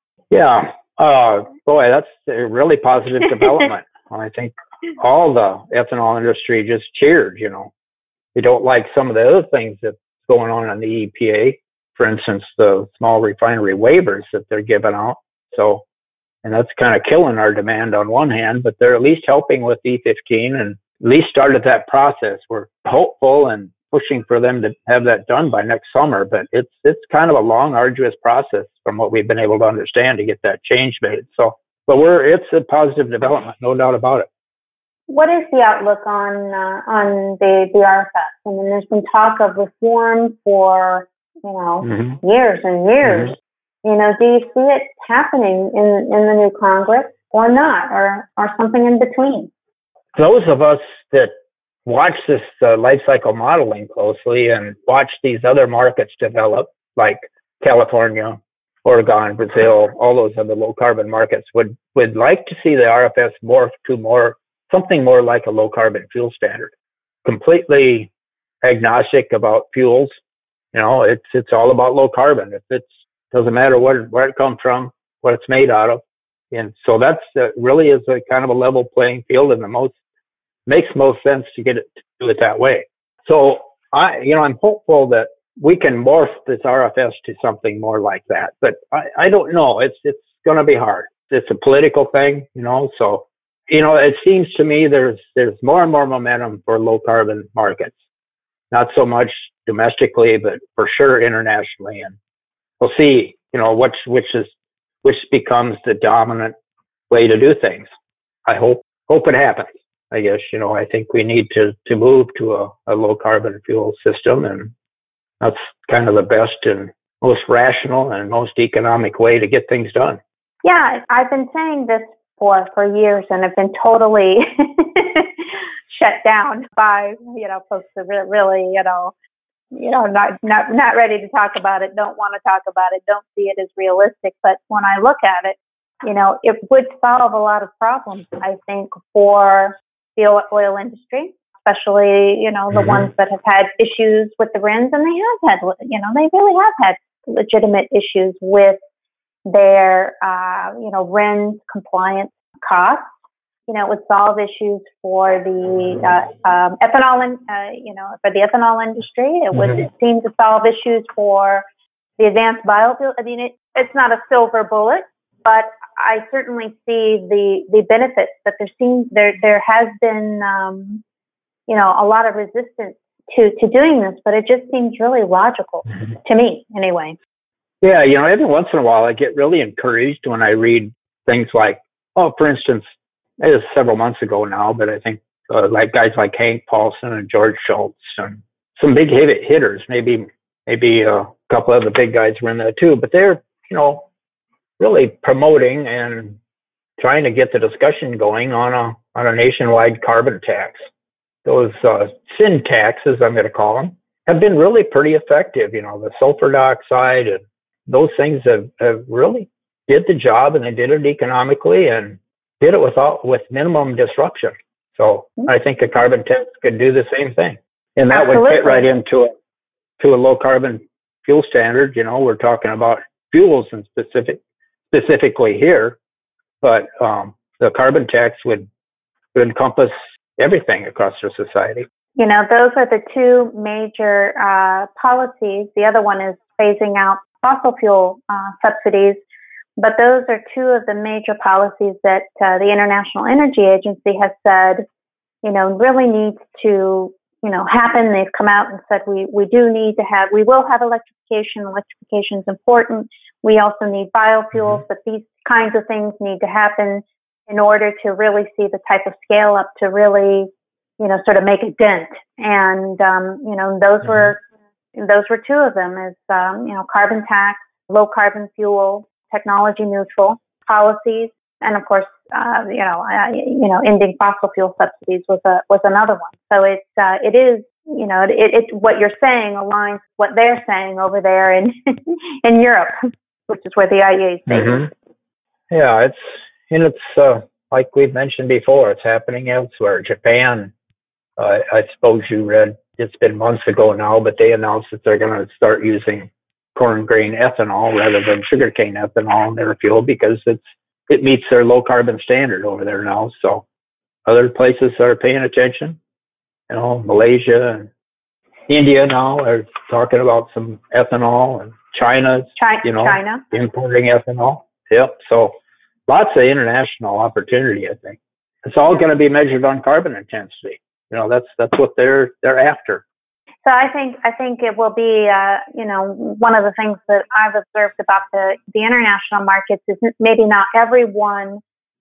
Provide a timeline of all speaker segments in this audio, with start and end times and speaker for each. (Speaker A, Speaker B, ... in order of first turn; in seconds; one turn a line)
Speaker A: 0.3-7.7
Speaker A: 8.3-15.8
Speaker A: 16.4-34.3
Speaker B: 35.1-49.5
Speaker A: 41.8-42.2
Speaker A: 50.1-51.3
Speaker A: 51.9-66.7
Speaker A: 67.2-68.1
Speaker A: 68.6-70.1
Speaker A: 70.7-80.0
Speaker A: 80.7-98.0
Speaker A: 98.7-102.2
Speaker A: 102.8-106.5
Speaker A: 107.1-107.9
Speaker A: 108.5-114.7
Speaker A: 115.4-120.2
Speaker B: 120.6-129.1
Speaker B: 129.7-148.8
Speaker A: 142.7-143.1
Speaker B: 149.5-153.2
Speaker B: 153.7-161.7
Speaker B: 162.2-171.0
Speaker B: 171.7-177.2
Speaker A: 177.8-194.1
Speaker A: 194.8-196.4
Speaker A: 197.0-200.8
Speaker A: 201.4-219.3
Speaker B: 218.1-218.9
Speaker A: 220.0-226.0
Speaker A: 226.6-228.7
Speaker A: 229.3-231.9
Speaker B: 232.2-239.2
Speaker B: 239.8-244.9
Speaker B: 245.4-264.4
Speaker B: 264.9-282.9
Speaker B: 283.5-284.9
Speaker A: 284.5-284.9
Speaker A: 285.7-290.7
Speaker A: 291.4-303.7
Speaker A: 304.3-306.0
Speaker A: 306.7-307.9
Speaker A: 308.7-315.5
Speaker B: 312.6-313.4
Speaker A: 316.1-323.0
Speaker B: 323.6-331.6